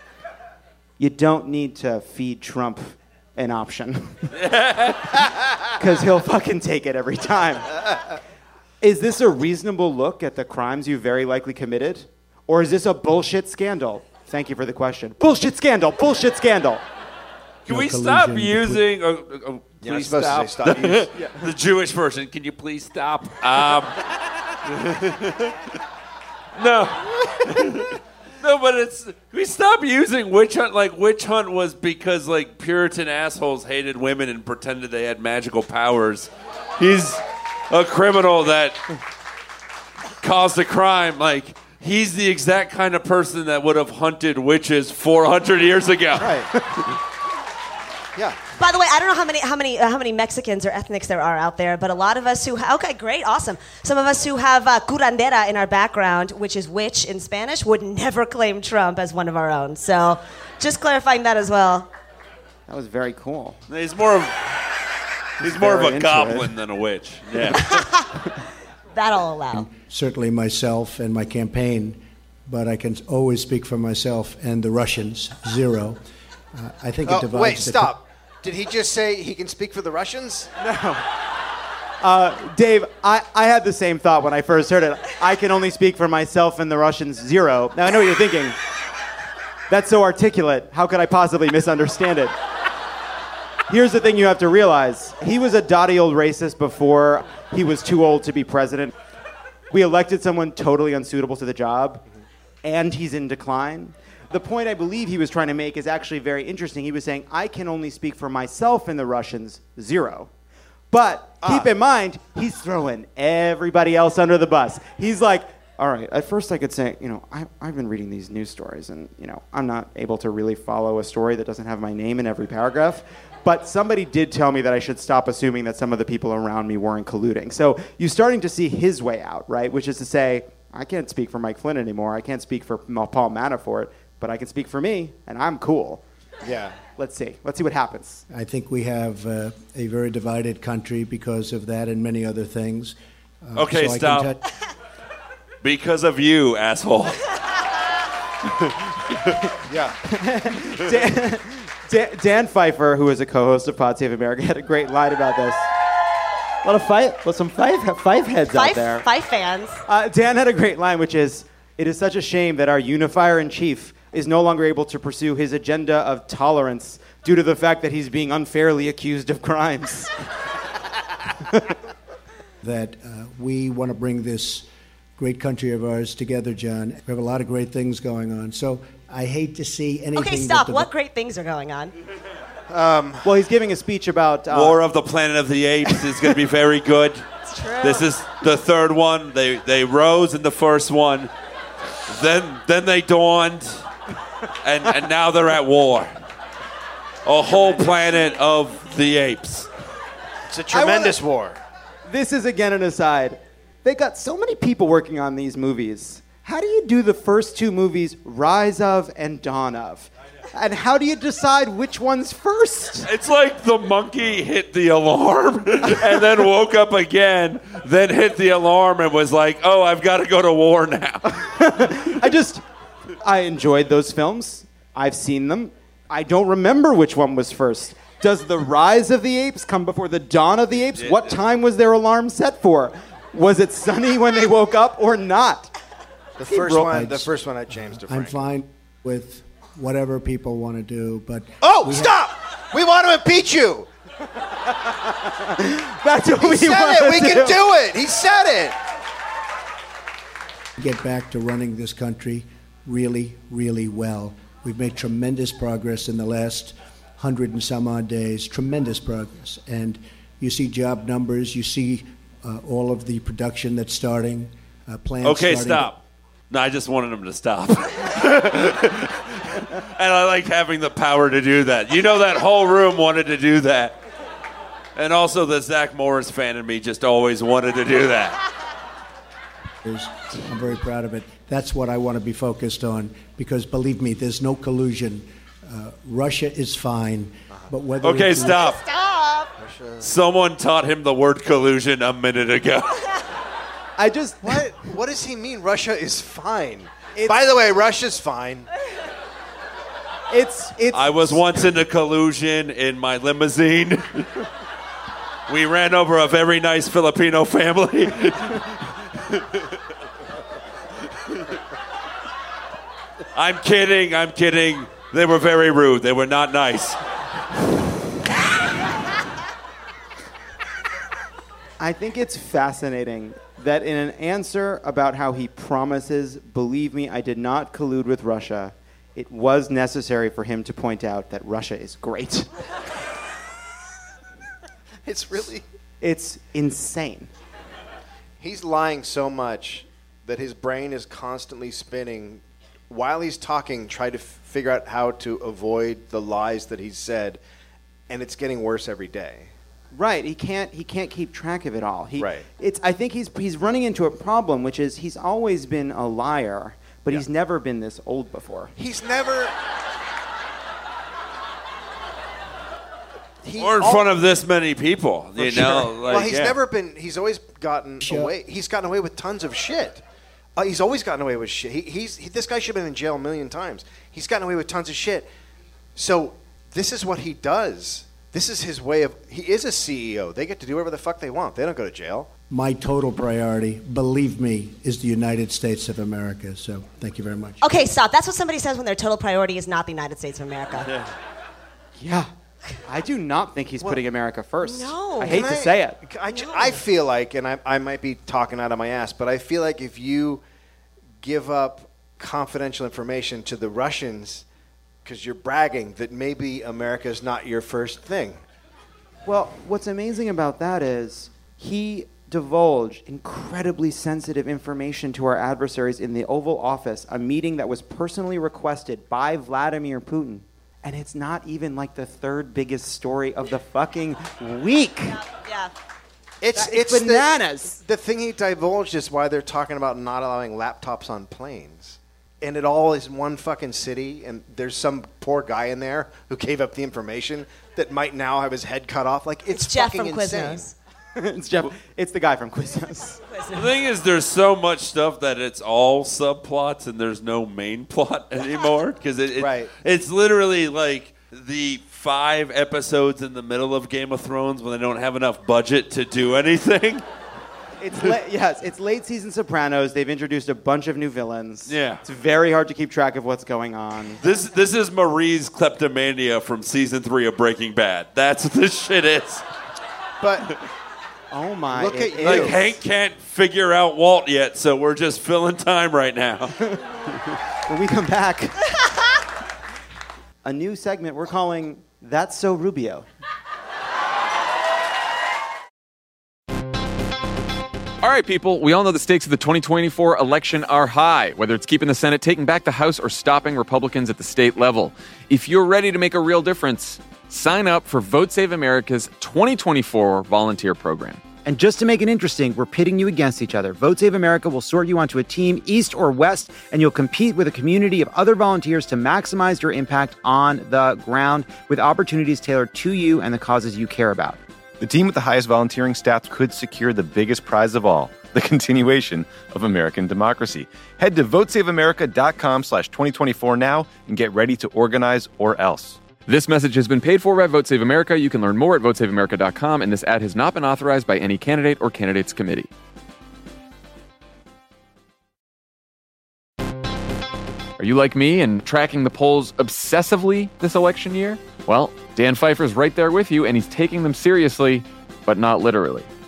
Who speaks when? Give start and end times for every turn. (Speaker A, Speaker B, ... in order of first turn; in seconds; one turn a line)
Speaker A: 1.0-4.3
Speaker B: 4.4-5.2
Speaker A: 5.7-7.8
Speaker A: 8.8-16.8
Speaker C: 17.7-18.9
Speaker B: 17.7-24.0
Speaker D: 19.8-21.1
Speaker B: 24.7-25.6
Speaker B: 26.6-38.8
Speaker B: 40.2-46.4
Speaker D: 46.2-46.5
Speaker E: 48.6-61.9
Speaker A: 62.7-63.6
Speaker B: 63.7-64.5
Speaker B: 65.4-67.8
Speaker A: 65.4-66.5
Speaker E: 67.5-68.1
Speaker E: 68.9-69.7
Speaker C: 69.5-76.0
Speaker C: 76.5-78.0
Speaker D: 77.1-80.5
Speaker A: 80.6-81.0
Speaker A: 82.0-88.6
Speaker A: 89.7-92.3
Speaker A: 93.7-98.9
Speaker A: 99.7-102.0
Speaker A: 102.6-110.3
Speaker A: 110.9-136.0
Speaker D: 111.4-111.7
Speaker D: 136.4-136.8
Speaker A: 137.0-138.2
Speaker C: 138.3-144.4
Speaker B: 143.6-144.3
Speaker B: 145.6-147.2
Speaker A: 150.1-155.7
Speaker A: 156.6-159.1
Speaker E: 158.6-159.8
Speaker A: 159.9-170.2
Speaker A: 171.5-171.8
Speaker C: 172.6-180.9
Speaker E: 180.1-181.9
Speaker D: 182.7-183.3
Speaker A: 183.2-184.8
Speaker B: 184.5-187.2
Speaker E: 187.5-188.1
Speaker B: 187.8-191.3
Speaker B: 192.1-193.9
Speaker B: 194.6-196.1
Speaker B: 197.2-199.7
Speaker D: 200.5-201.6
Speaker A: 200.7-201.2
Speaker A: 202.1-213.1
Speaker B: 213.1-221.4
Speaker A: 221.3-222.6
Speaker A: 223.2-235.7
Speaker B: 231.0-231.3
Speaker D: 236.4-238.4
Speaker A: 236.5-237.0
Speaker C: 236.9-242.2
Speaker D: 241.6-243.9
Speaker A: 244.8-247.6
Speaker D: 246.4-248.8
Speaker C: 250.8-266.0
Speaker B: 265.2-266.0
Speaker B: 266.5-274.0
Speaker B: 275.0-278.4
Speaker C: 279.9-288.7
Speaker B: 288.0-288.8
Speaker E: 288.4-289.5
Speaker D: 289.6-290.1
Speaker B: 290.0-293.2
Speaker A: 294.0-294.7
Speaker D: 294.4-298.7
Speaker A: 300.3-301.4
Speaker B: 300.9-304.4
Speaker B: 305.5-309.6
Speaker B: 313.4-317.0
Speaker A: 321.8-332.5
Speaker D: 335.1-335.6
Speaker A: 336.0-337.3
Speaker D: 338.4-347.4
Speaker D: 348.1-349.5
Speaker A: 349.9-358.7
Speaker D: 352.2-352.4
Speaker D: 358.8-359.6
Speaker D: 363.4-364.2
Speaker B: 363.6-366.6
Speaker D: 365.4-370.0
Speaker C: 368.0-368.3
Speaker D: 370.6-375.3
Speaker D: 376.0-382.3
Speaker C: 382.5-387.6
Speaker E: 387.6-390.9
Speaker A: 392.0-392.3
Speaker A: 392.9-396.0
Speaker E: 394.6-395.4
Speaker D: 395.2-400.4
Speaker E: 396.3-396.8
Speaker D: 401.2-404.4
Speaker D: 405.1-408.4
Speaker A: 409.3-425.2
Speaker E: 425.1-425.7
Speaker D: 426.4-440.7
Speaker A: 426.6-427.8
Speaker E: 439.5-440.7
Speaker A: 441.2-443.2
Speaker E: 443.3-443.8
Speaker B: 443.5-457.0
Speaker D: 449.4-449.7
Speaker A: 457.8-464.2
Speaker B: 461.7-462.0
Speaker B: 464.2-469.4
Speaker D: 470.2-470.5
Speaker A: 471.3-472.6
Speaker D: 471.7-472.7
Speaker B: 472.2-476.5
Speaker A: 477.7-478.6
Speaker A: 480.4-483.1
Speaker F: 488.0-501.2
Speaker G: 501.4-514.4
Speaker H: 514.8-526.0
Speaker F: 526.2-532.7
Speaker F: 537.8-546.1